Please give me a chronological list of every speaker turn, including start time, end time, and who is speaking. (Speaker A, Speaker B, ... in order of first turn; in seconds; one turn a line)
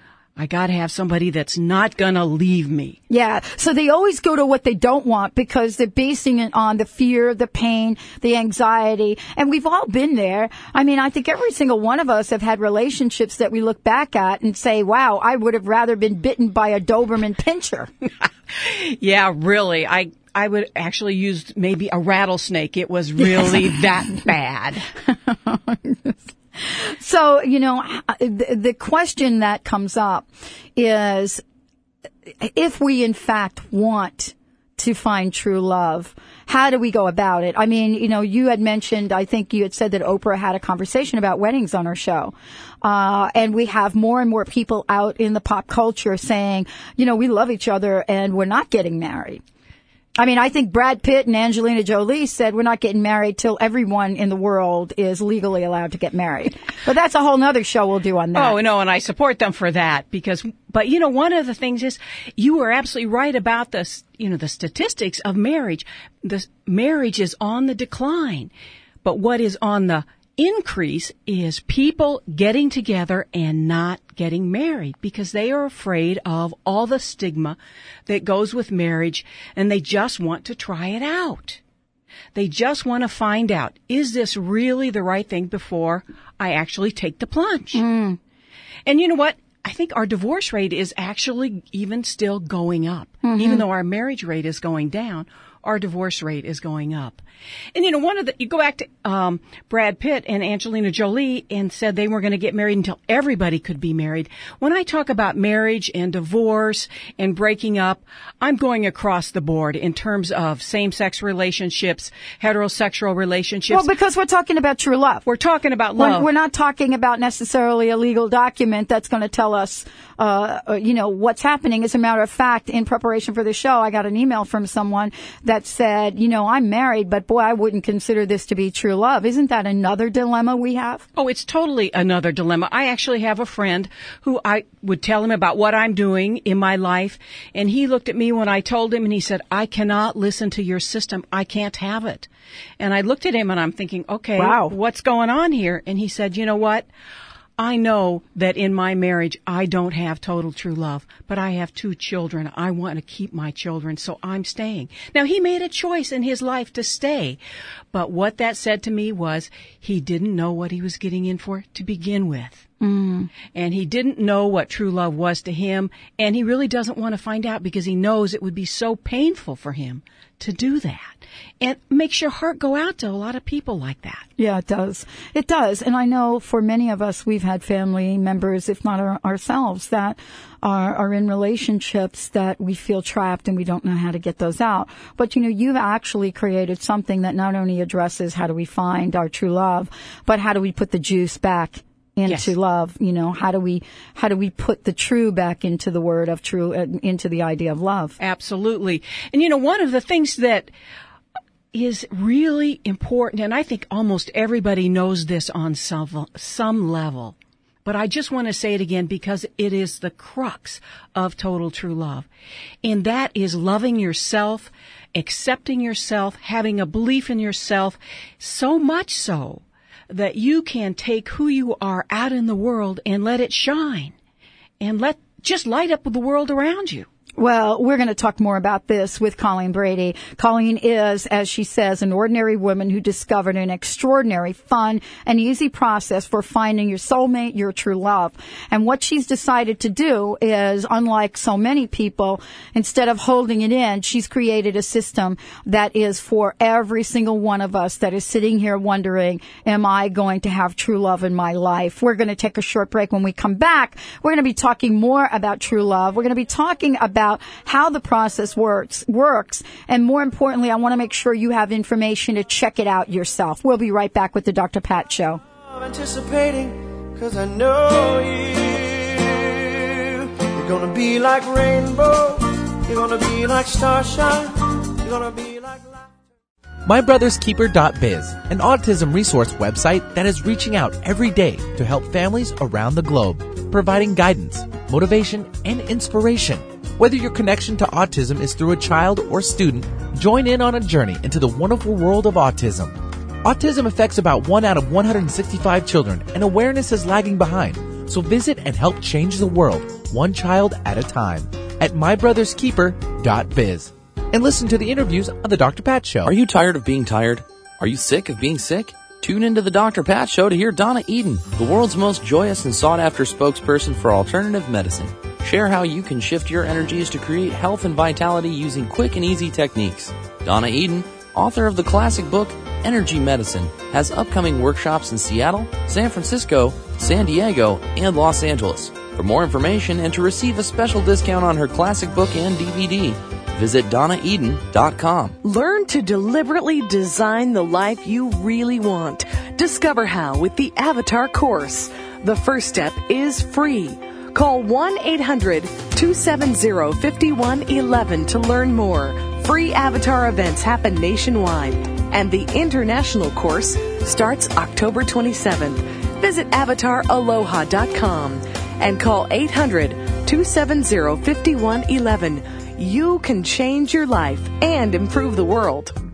Speaker A: 0.4-3.0
Speaker B: 3.1-17.9
Speaker A: 18.5-24.9
Speaker B: 25.3-31.4
Speaker B: 32.4-49.4
Speaker B: 50.2-58.6
Speaker A: 58.3-68.5
Speaker A: 69.0-81.6
Speaker A: 82.3-87.8
Speaker B: 87.7-88.2
Speaker A: 88.8-97.2
Speaker B: 93.2-93.6
Speaker A: 97.7-113.9
Speaker B: 113.7-115.2
Speaker A: 115.2-116.3
Speaker B: 116.0-131.0
Speaker A: 131.2-142.3
Speaker A: 142.8-146.8
Speaker B: 144.4-144.7
Speaker A: 147.6-157.4
Speaker A: 157.9-162.6
Speaker B: 162.8-163.3
Speaker A: 163.5-174.2
Speaker B: 174.4-198.2
Speaker A: 198.2-200.7
Speaker A: 201.7-212.3
Speaker A: 212.8-224.1
Speaker A: 224.8-227.1
Speaker B: 227.4-265.4
Speaker C: 265.6-276.1
Speaker D: 276.9-306.3
Speaker E: 306.2-335.4
Speaker F: 335.4-366.0